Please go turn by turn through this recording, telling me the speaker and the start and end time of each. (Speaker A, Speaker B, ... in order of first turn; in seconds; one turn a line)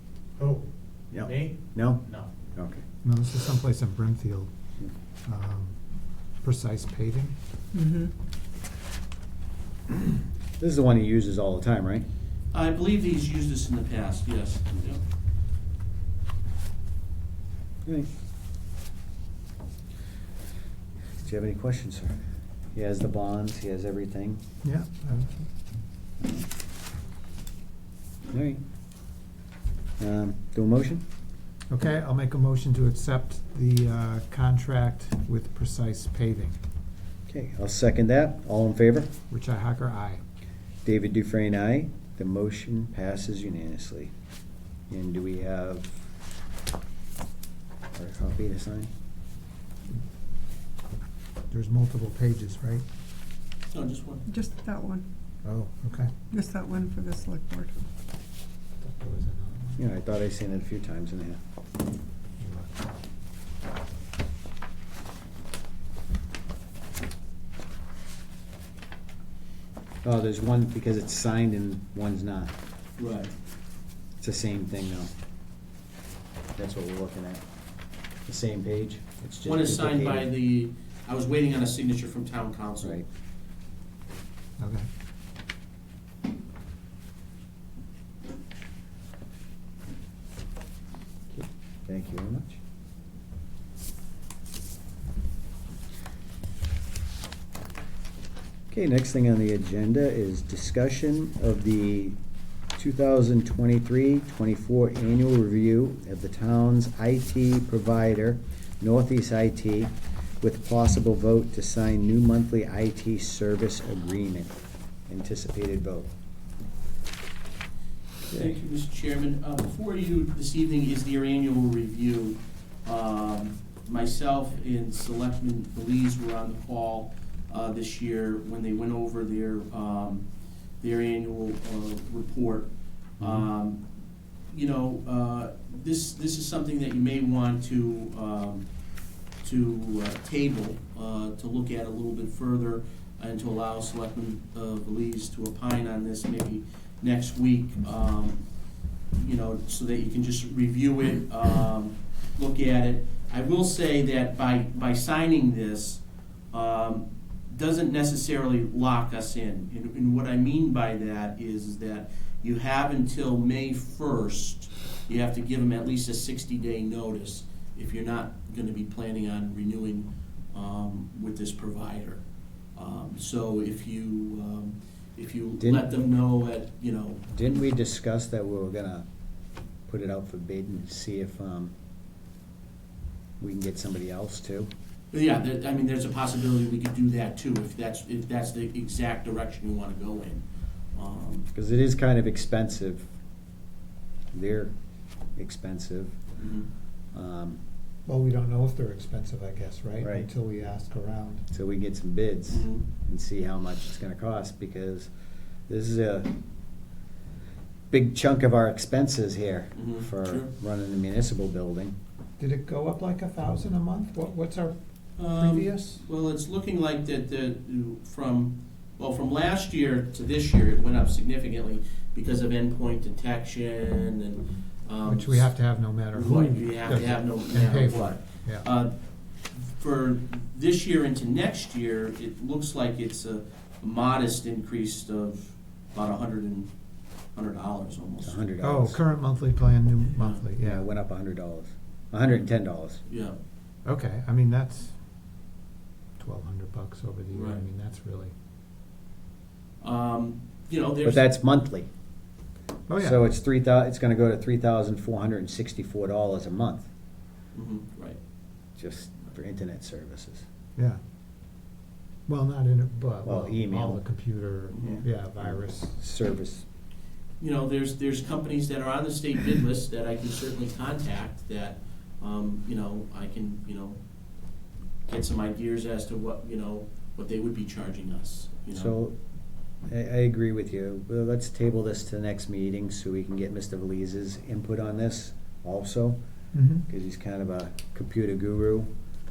Speaker A: 0.4-0.6
Speaker B: 1.1-2.8
Speaker A: 1.2-2.3
Speaker C: 3.0-4.5
Speaker C: 5.3-5.8
Speaker C: 6.4-7.3
Speaker D: 7.7-8.1
Speaker B: 10.6-12.1
Speaker A: 12.5-15.0
Speaker B: 21.2-22.2
Speaker B: 22.7-24.4
Speaker C: 24.6-25.5
Speaker B: 28.3-28.6
Speaker B: 30.0-31.0
Speaker C: 31.7-36.6
Speaker B: 37.3-39.1
Speaker C: 39.3-40.2
Speaker B: 40.9-44.1
Speaker B: 44.9-46.0
Speaker B: 48.0-48.9
Speaker C: 51.5-52.9
Speaker A: 53.7-54.2
Speaker D: 54.3-55.1
Speaker C: 55.4-56.1
Speaker D: 56.3-57.7
Speaker C: 58.8-59.8
Speaker B: 59.8-61.4
Speaker C: 62.4-62.8
Speaker B: 70.0-72.5
Speaker A: 73.0-73.3
Speaker B: 74.2-75.1
Speaker B: 76.6-77.4
Speaker B: 78.3-80.3
Speaker A: 79.4-83.0
Speaker C: 84.6-84.9
Speaker B: 91.3-92.6
Speaker B: 98.7-102.2
Speaker B: 102.8-114.6
Speaker B: 115.1-116.1
Speaker A: 118.3-130.2
Speaker A: 130.8-133.8
Speaker B: 133.2-133.5
Speaker A: 134.5-138.7
Speaker A: 139.4-148.4
Speaker A: 149.2-172.2
Speaker A: 172.8-177.2
Speaker B: 175.6-175.9
Speaker B: 177.3-179.1
Speaker B: 179.9-181.7
Speaker B: 183.4-184.7
Speaker A: 185.1-190.4
Speaker A: 190.9-191.5
Speaker B: 191.5-193.1
Speaker B: 194.3-194.7
Speaker B: 195.4-196.2
Speaker A: 196.4-196.7
Speaker B: 197.1-197.6
Speaker C: 198.1-201.5
Speaker B: 200.0-200.3
Speaker B: 201.5-205.1
Speaker A: 202.5-202.8
Speaker B: 205.7-206.3
Speaker B: 207.9-211.9
Speaker A: 209.8-210.5
Speaker C: 212.4-216.0
Speaker A: 215.2-225.5
Speaker C: 225.1-228.7
Speaker A: 226.1-228.9
Speaker A: 229.5-236.7
Speaker A: 237.3-238.4
Speaker B: 238.2-239.0
Speaker C: 238.6-240.9
Speaker A: 240.2-240.4
Speaker B: 240.6-243.0
Speaker A: 243.1-243.3
Speaker C: 243.8-244.9
Speaker C: 246.2-248.3
Speaker A: 247.3-247.6
Speaker A: 249.8-251.2
Speaker B: 251.0-251.9
Speaker C: 252.9-253.2
Speaker B: 253.0-256.9
Speaker A: 257.5-258.2
Speaker B: 258.8-260.4
Speaker C: 262.3-266.0
Speaker B: 263.2-264.0
Speaker A: 264.7-265.0
Speaker B: 264.8-266.6
Speaker A: 267.4-274.0
Speaker A: 275.1-278.9
Speaker B: 278.7-279.1
Speaker B: 279.9-286.2
Speaker C: 286.5-286.9
Speaker B: 286.9-288.9